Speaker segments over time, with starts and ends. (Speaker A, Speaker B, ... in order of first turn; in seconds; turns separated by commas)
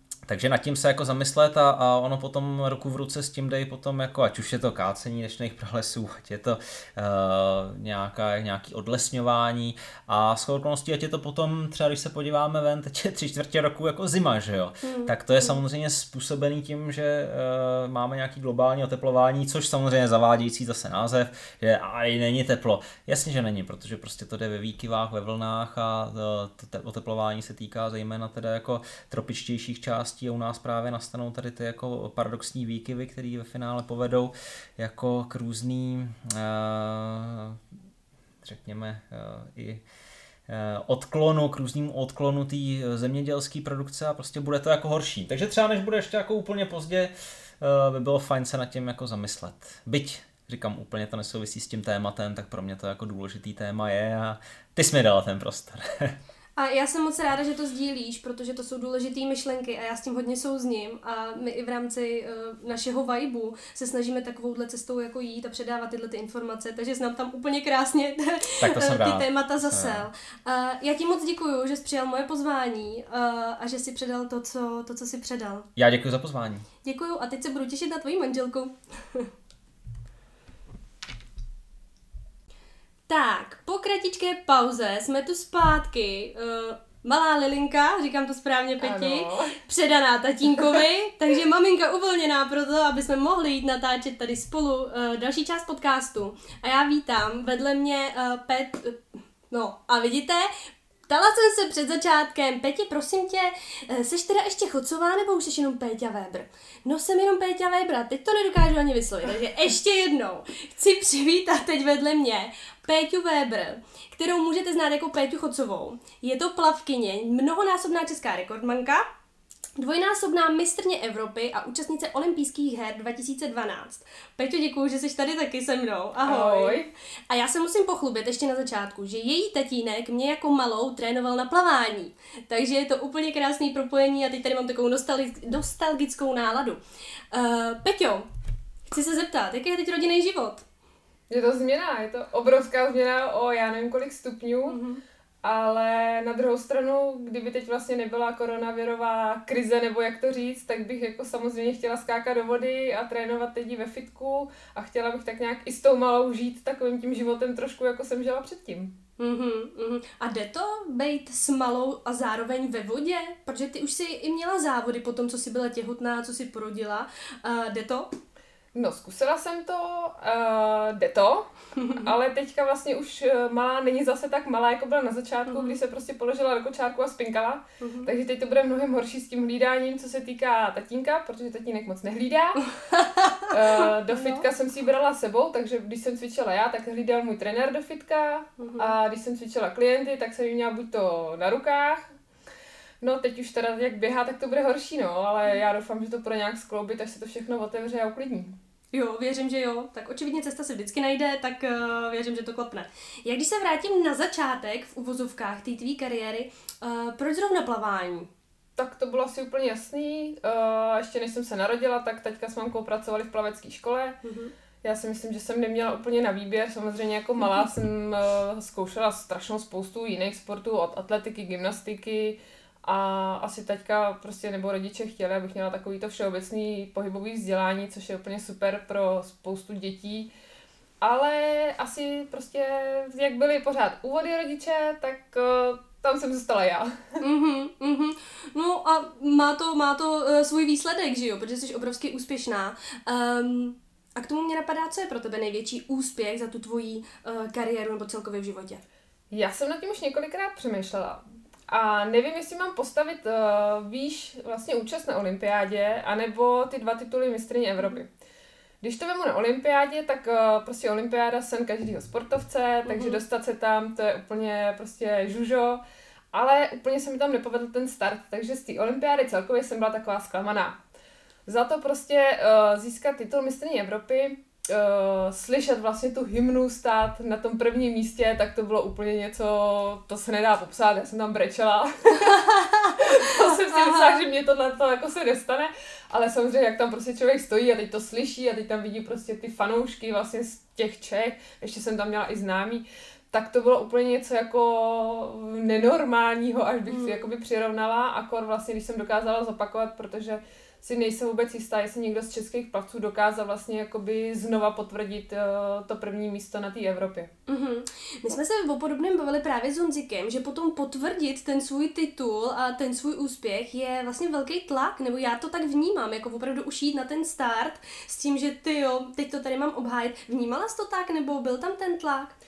Speaker A: 0.3-37.6, Speaker B: 14.8-15.6, Speaker A: 38.4-39.8, Speaker A: 40.5-56.1, Speaker B: 56.6-75.7, Speaker A: 68.6-70.1, Speaker A: 75.8-76.7, Speaker B: 76.8-79.3, Speaker B: 83.1-100.5, Speaker C: 88.8-89.6, Speaker B: 101.1-119.1, Speaker B: 119.8-136.8, Speaker C: 126.2-126.9, Speaker B: 137.3-138.3, Speaker B: 138.9-140.7, Speaker C: 141.3-144.8, Speaker B: 144.7-145.0, Speaker C: 145.4-158.9, Speaker B: 159.2-168.1, Speaker C: 168.8-182.7, Speaker B: 171.8-172.1, Speaker B: 175.5-175.8, Speaker B: 177.8-178.1, Speaker B: 182.7-184.5, Speaker C: 183.5-192.1, Speaker B: 188.6-188.9, Speaker C: 193.0-198.6, Speaker B: 198.9-208.3, Speaker C: 208.8-214.2, Speaker B: 214.2-214.5, Speaker C: 214.8-230.3, Speaker C: 231.0-237.2, Speaker B: 237.2-248.8, Speaker C: 249.3-258.1, Speaker C: 258.8-265.8, Speaker B: 262.9-263.2, Speaker C: 266.3-270.8, Speaker C: 271.5-282.4, Speaker B: 282.2-284.2, Speaker C: 283.0-307.3, Speaker B: 296.9-297.3, Speaker B: 307.5-322.3